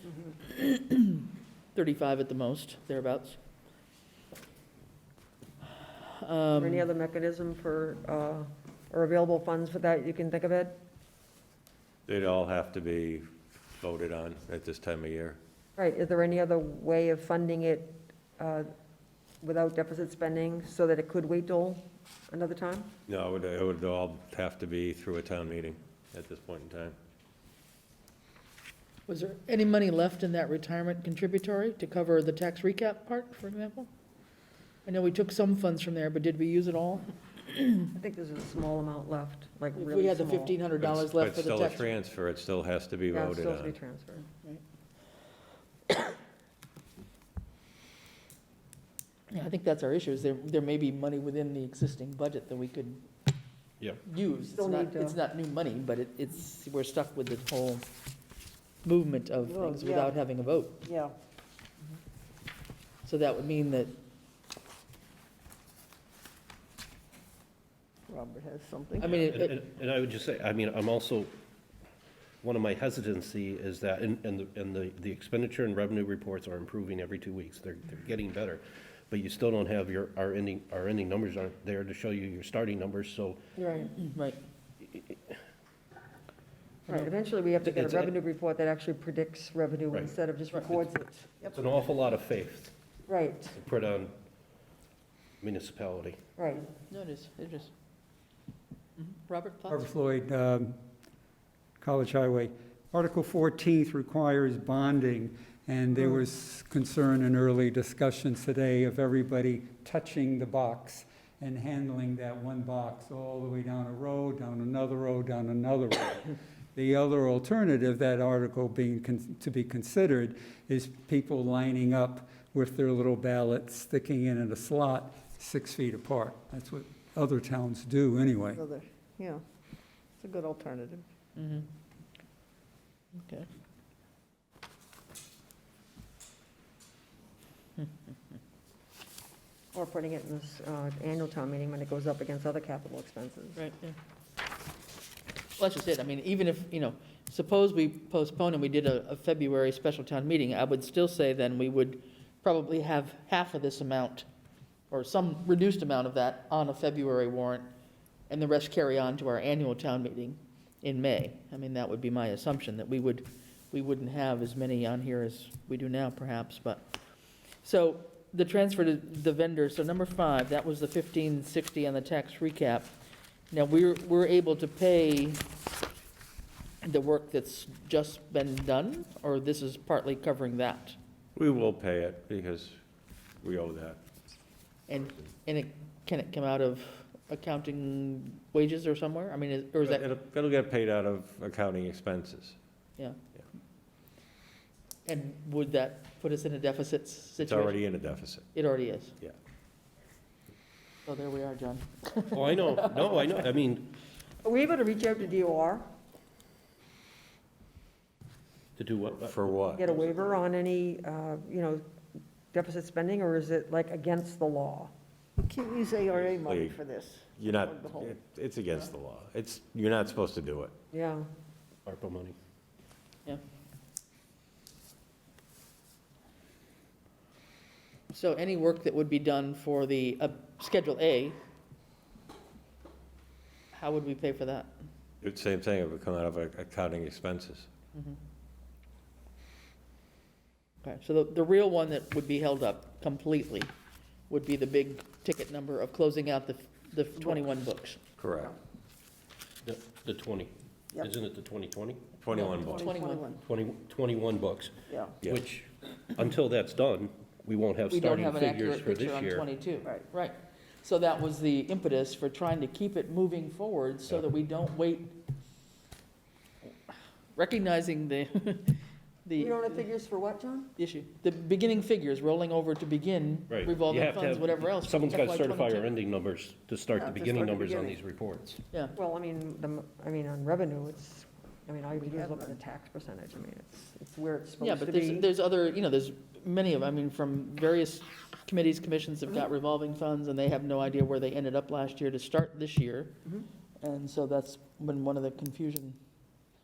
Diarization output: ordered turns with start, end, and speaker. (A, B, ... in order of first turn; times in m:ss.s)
0:00.4-0:03.4 A
0:06.0-0:06.9 A
0:06.6-0:10.8 B
0:12.1-0:15.4 C
0:15.8-0:18.7 B
0:19.4-0:22.9 B
0:23.1-0:27.0 C
0:29.1-0:33.9 A
0:34.9-0:37.9 A
0:37.9-0:40.6 B
0:39.8-0:41.9 A
0:40.8-0:43.8 C
0:43.1-0:44.2 B
0:49.3-0:53.0 A
0:54.1-0:57.9 A
0:54.5-0:55.2 B
0:58.8-1:00.9 A
0:59.5-1:00.1 D
1:00.8-1:01.1 D
1:03.0-1:04.0 A
1:08.1-1:09.1 D
1:09.0-1:09.6 A
1:09.0-1:11.3 E
1:12.4-1:23.4 E
1:23.6-1:23.9 B
1:24.0-1:24.4 A
1:26.9-1:31.4 B
1:27.6-1:28.1 E
1:31.5-1:32.7 E
1:33.1-1:33.6 B
1:33.5-1:34.1 E
1:35.4-1:36.2 E
1:36.4-1:36.7 B
1:36.9-1:37.7 A
1:39.0-1:39.9 A
1:39.7-1:40.8 F
1:41.8-2:08.6 F
2:08.6-2:09.4 D
2:10.2-2:11.0 D
2:11.4-2:11.7 A
2:13.2-2:13.5 A
2:19.7-2:23.6 B
2:23.6-2:24.0 A
2:25.6-2:34.3 A
2:34.9-2:37.7 A
2:38.3-2:46.9 A
2:47.6-2:52.9 A
2:53.5-2:55.4 A
2:56.8-3:01.0 A
3:01.4-3:02.8 C
3:03.4-3:04.0 C
3:04.9-3:10.0 A
3:09.8-3:12.6 C
3:15.1-3:17.9 A
3:17.4-3:18.5 C
3:18.5-3:19.2 A
3:21.1-3:22.8 A
3:22.3-3:24.0 E
3:24.4-3:25.9 B
3:28.8-3:30.2 E
3:29.2-3:29.9 C
3:29.7-3:31.8 B
3:32.5-3:34.9 B
3:35.4-3:38.1 D
3:36.4-3:36.8 C
3:37.4-3:40.7 C
3:40.9-3:41.3 B
3:41.9-3:42.4 E
3:48.1-3:51.4 A
3:53.7-3:54.7 A
3:55.2-3:57.7 C
4:00.8-4:03.7 A
4:04.3-4:08.0 A
4:08.2-4:08.6 C
4:09.6-4:12.1 E
4:12.2-4:12.9 C
4:12.3-4:13.3 A
4:12.6-4:13.4 D
4:13.4-4:14.7 E
4:14.9-4:15.2 D
4:15.2-4:19.5 E
4:17.9-4:25.2 A
4:26.9-4:29.8 A
4:29.4-4:30.7 B
4:30.8-4:35.9 A
4:33.5-4:38.6 E
4:37.0-4:38.0 D
4:39.0-4:45.3 B
4:44.6-4:53.3 A
4:53.8-4:56.0 A